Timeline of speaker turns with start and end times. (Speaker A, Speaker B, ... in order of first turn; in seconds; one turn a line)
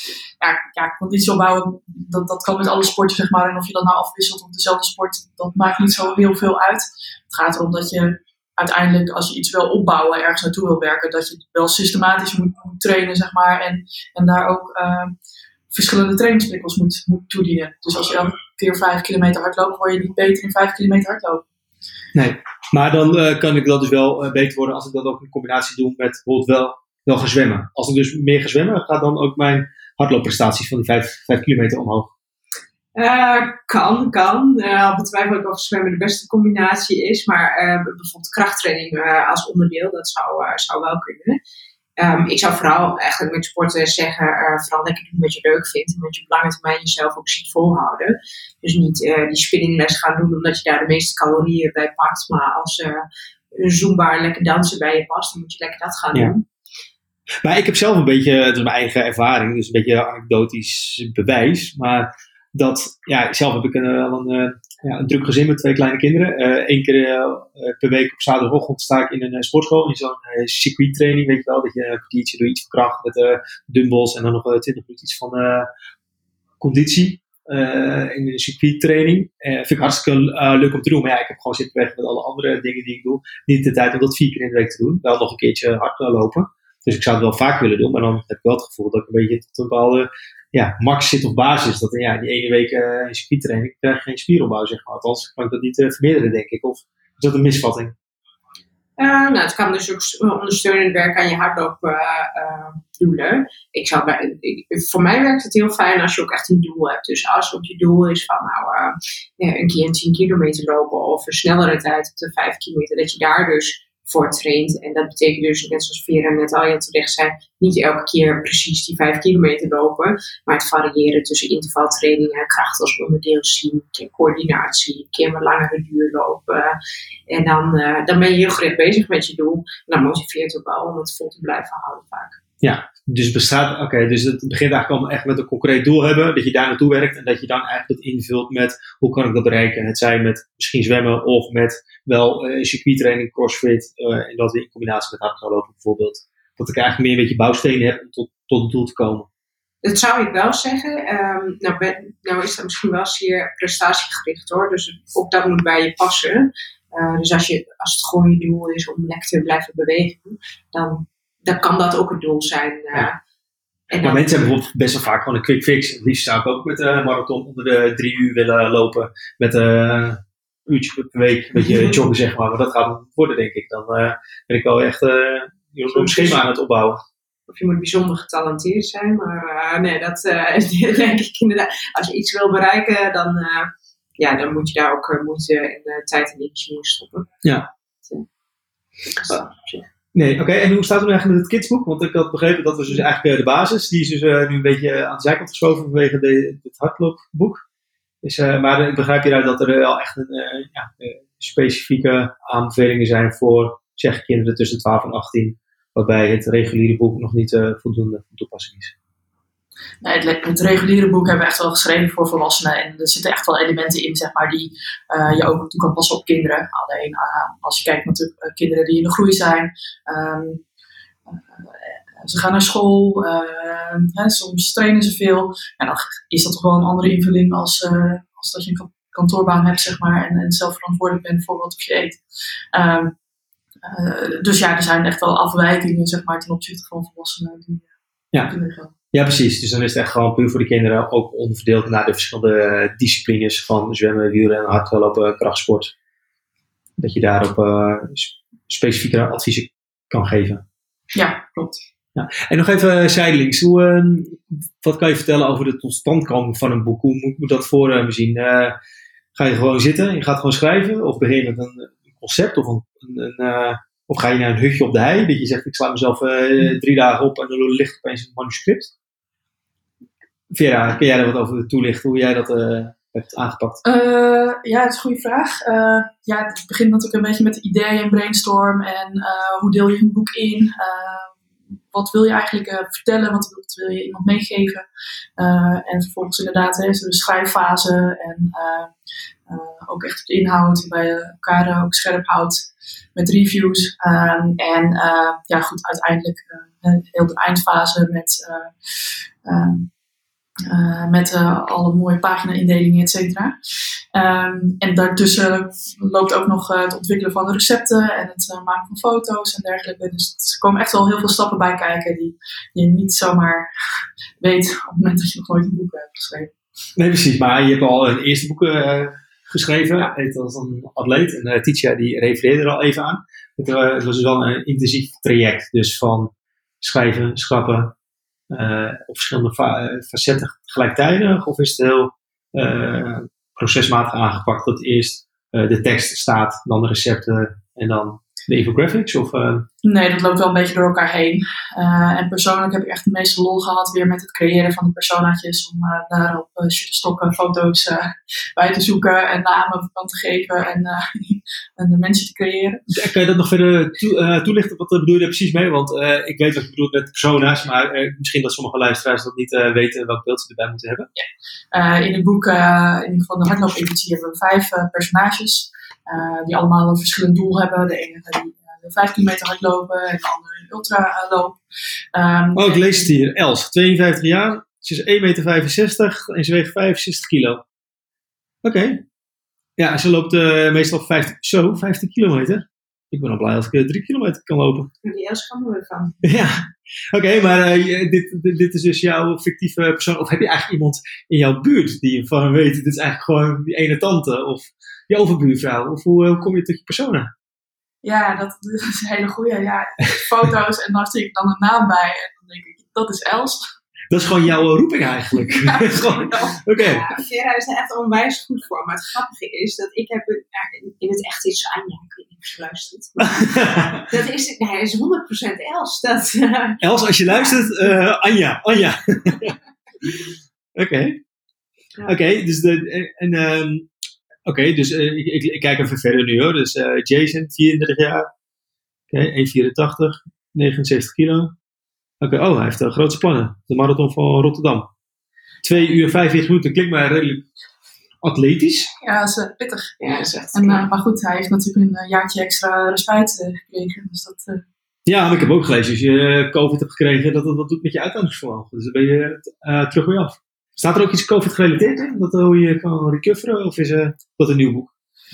Speaker A: 0.4-15.1
Speaker A: 15.7-21.4
Speaker B: 22.1-32.1
Speaker C: 33.0-41.4
Speaker C: 42.0-56.4
Speaker B: 57.4-75.7
Speaker B: 76.6-97.9
Speaker C: 99.0-126.7
Speaker C: 127.3-132.4
Speaker B: 132.6-149.3
Speaker C: 149.8-163.2
Speaker C: 163.9-164.3
Speaker B: 163.9-177.0
Speaker C: 171.6-172.0
Speaker C: 175.9-176.4
Speaker C: 177.5-187.3
Speaker B: 187.4-187.7
Speaker C: 189.2-189.9
Speaker B: 190.1-197.6
Speaker B: 198.2-208.9
Speaker A: 210.0-220.6
Speaker A: 221.3-232.2
Speaker A: 232.7-233.1
Speaker A: 233.8-237.9
Speaker A: 238.4-238.9
Speaker B: 239.1-245.9
Speaker B: 247.0-250.6
Speaker A: 251.1-251.8
Speaker B: 252.1-258.7
Speaker B: 259.3-268.9
Speaker B: 270.5-273.8
Speaker A: 273.8-281.4
Speaker A: 281.9-284.9
Speaker A: 285.4-288.9
Speaker A: 289.5-298.7
Speaker A: 299.4-299.9
Speaker A: 300.7-303.6
Speaker A: 304.1-313.7
Speaker A: 314.4-316.5
Speaker B: 317.0-327.9
Speaker B: 328.5-339.6
Speaker A: 339.8-352.8
Speaker B: 352.9-361.1
Speaker A: 361.1-371.6
Speaker A: 372.1-373.1
Speaker B: 372.5-377.6
Speaker B: 378.6-379.0
Speaker B: 379.8-384.9
Speaker C: 385.0-386.2
Speaker B: 386.2-386.6
Speaker B: 387.1-397.3
Speaker A: 398.0-403.7
Speaker B: 404.1-407.0
Speaker C: 405.6-417.6
Speaker B: 413.2-414.1
Speaker B: 416.8-420.1
Speaker B: 420.7-421.2
Speaker B: 422.0-423.9
Speaker B: 424.4-428.3
Speaker B: 429.1-431.5
Speaker B: 432.2-434.9
Speaker B: 435.6-437.5
Speaker B: 438.2-438.9
Speaker A: 439.0-440.0
Speaker C: 440.0-440.9
Speaker A: 440.5-444.6
Speaker B: 445.1-454.9